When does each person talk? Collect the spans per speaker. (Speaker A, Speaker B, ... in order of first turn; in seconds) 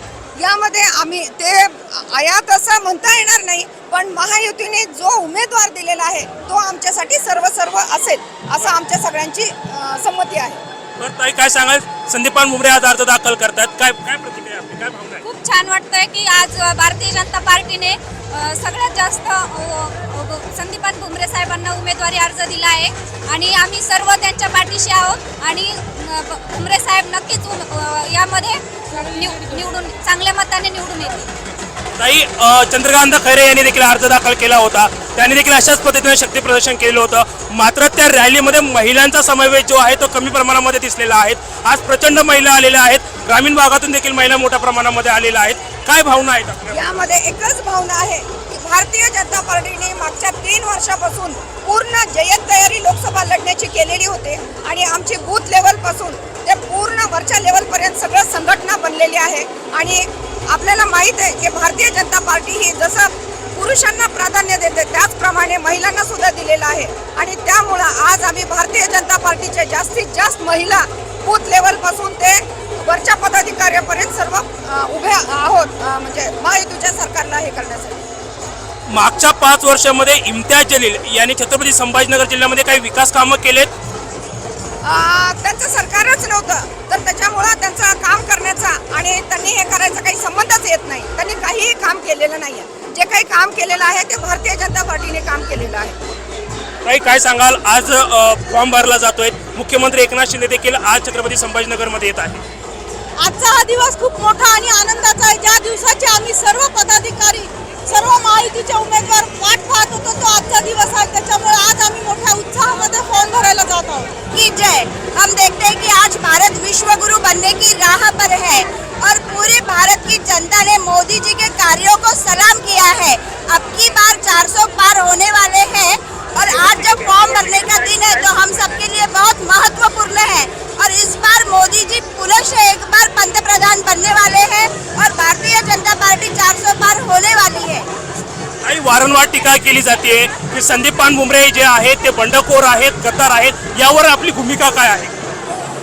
Speaker A: 0.4-10.6, 46.7-78.0, 84.8-96.0
Speaker B: 11.0-15.2, 32.0-47.0, 78.9-83.7, 96.8-102.4, 126.4-128.7, 138.6-145.1
Speaker C: 15.2-31.3
Speaker D: 103.2-114.2
Speaker E: 114.3-137.9